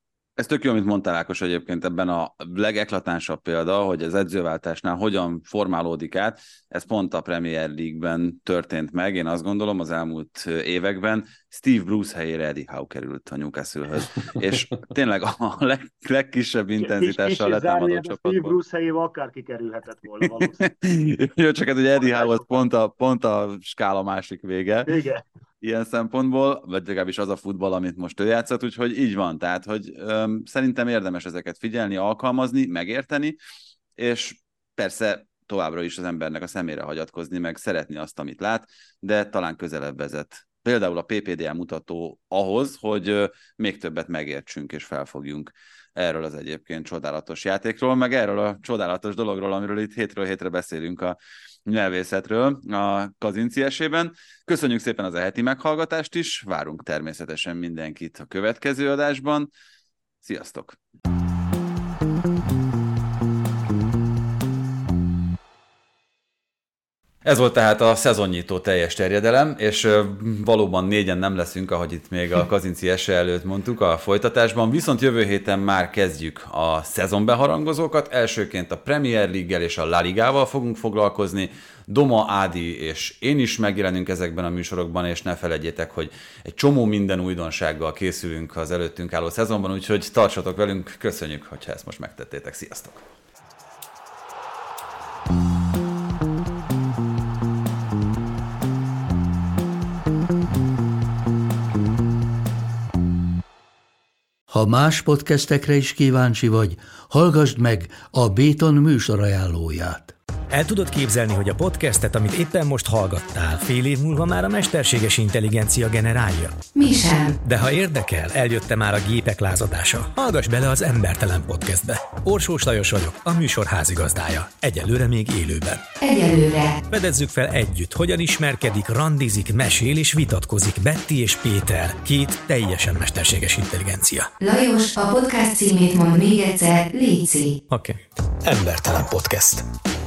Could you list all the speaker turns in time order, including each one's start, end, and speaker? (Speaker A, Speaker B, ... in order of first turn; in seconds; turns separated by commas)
Speaker A: 0.4-18.6, Speaker B: 16.8-20.6, Speaker A: 20.2-25.0, Speaker B: 22.0-22.7, Speaker B: 24.9-25.2, Speaker A: 25.6-33.4, Speaker A: 34.0-59.5, Speaker A: 60.2-60.8, Speaker A: 67.2-93.0, Speaker C: 104.5-110.1, Speaker D: 110.5-116.6, Speaker E: 116.8-117.3, Speaker D: 117.4-125.8, Speaker E: 126.0-126.8, Speaker D: 126.9-134.3, Speaker E: 134.4-137.6, Speaker D: 137.7-139.7